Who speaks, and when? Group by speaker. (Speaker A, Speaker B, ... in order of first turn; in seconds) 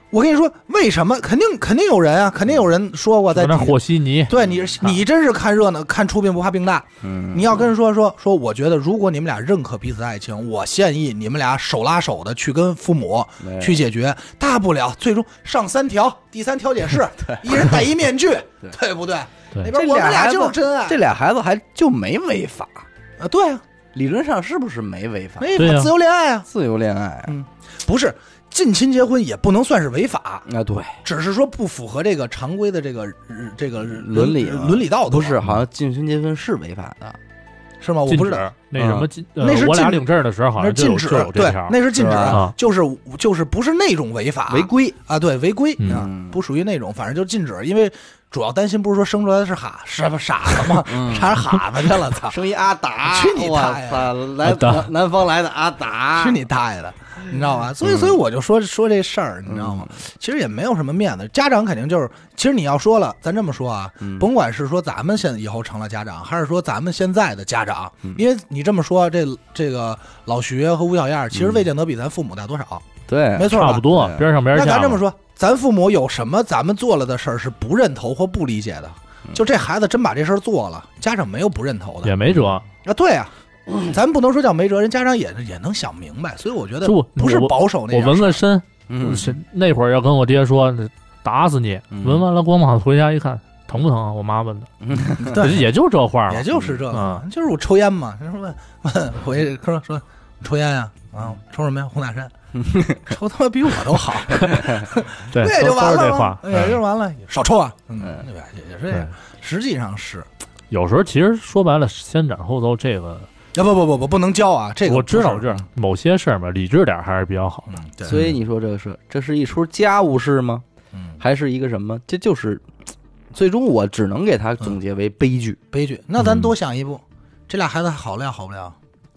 Speaker A: 0.1-21.0, 23.2-23.6, 25.4-26.5, 27.3-30.5, 31.0-35.4, 37.8-38.5, 39.4-52.4, 53.0-54.1, 56.1-82.2, 82.8-88.4, 95.2-95.7, 96.3-102.3, 103.0-110.3, 113.5-115.7, 117.7-118.2, 125.7-128.8
Speaker B: 3.3-5.0, 25.6-25.9, 38.1-42.5, 45.8-46.1, 54.4-54.9, 73.5-75.0, 82.0-82.7, 86.8-94.7, 95.2-97.2, 105.3-106.8, 110.7-113.3, 114.8-118.3
Speaker C: 7.0-7.6, 13.4-13.8, 17.2-17.7, 19.7-22.9, 23.9-25.5, 26.5-27.4, 30.5-31.0, 33.9-37.2, 38.8-39.1, 42.0-42.4, 44.5-45.0, 45.9-46.4, 50.8-51.4, 52.3-56.4, 59.5-60.0, 64.0-64.3, 73.1-74.2, 88.9-89.4, 91.9-92.2, 94.8-95.6, 102.5-103.1, 118.1-120.7, 121.2-122.7, 123.3-125.6